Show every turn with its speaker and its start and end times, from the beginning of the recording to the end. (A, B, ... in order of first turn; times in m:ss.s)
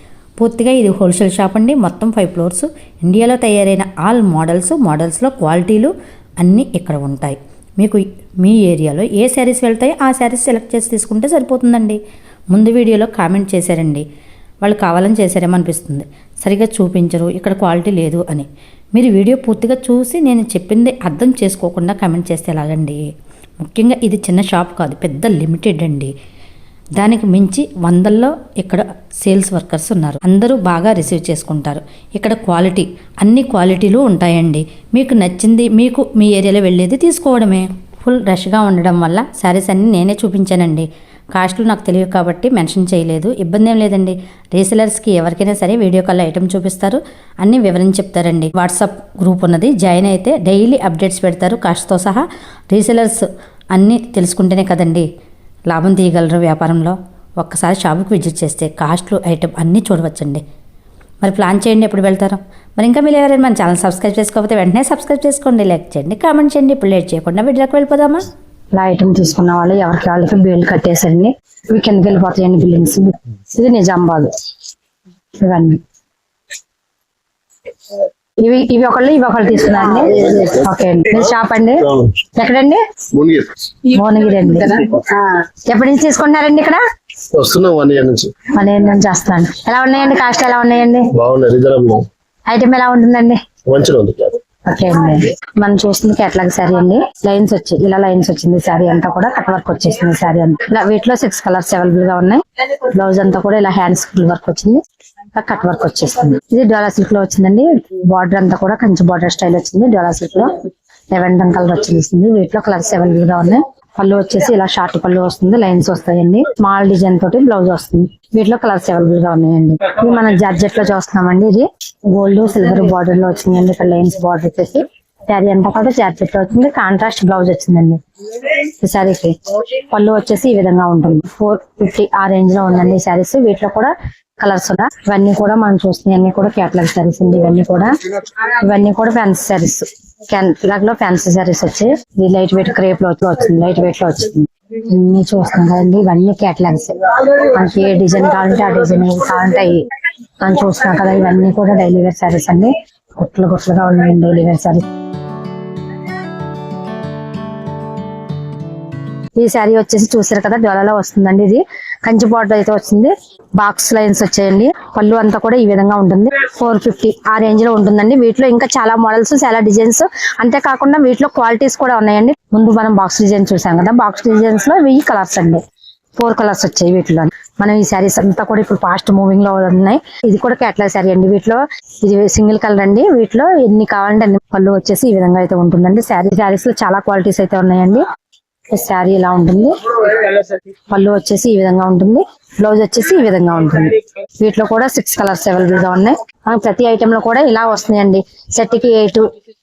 0:00.4-0:12.0 A
0:12.5-0:14.0 A
0:14.6-0:23.0 A
0:23.6-0:26.1 A
0:27.0-0:55.1 A
0:55.7-1:00.4 A
1:01.2-1:08.2 A
1:08.7-1:14.3 B
1:15.4-1:15.8 B
1:18.4-1:22.8 B
1:23.1-1:23.5 C
1:23.9-1:25.0 B
1:25.7-1:26.8 B
1:27.3-1:28.3 C
1:28.6-1:31.1 B
1:31.1-1:32.1 C
1:32.5-1:33.4 B
1:33.7-1:34.3 C
1:34.7-1:44.8 B
1:45.3-1:50.6 B
1:51.1-2:08.0 B
2:08.8-2:09.4 B
2:09.9-2:29.9 B
2:30.4-2:34.8 B
2:39.4-2:55.6 B
2:56.2-3:08.0 B
3:08.7-3:10.3 B
3:10.9-3:19.2 B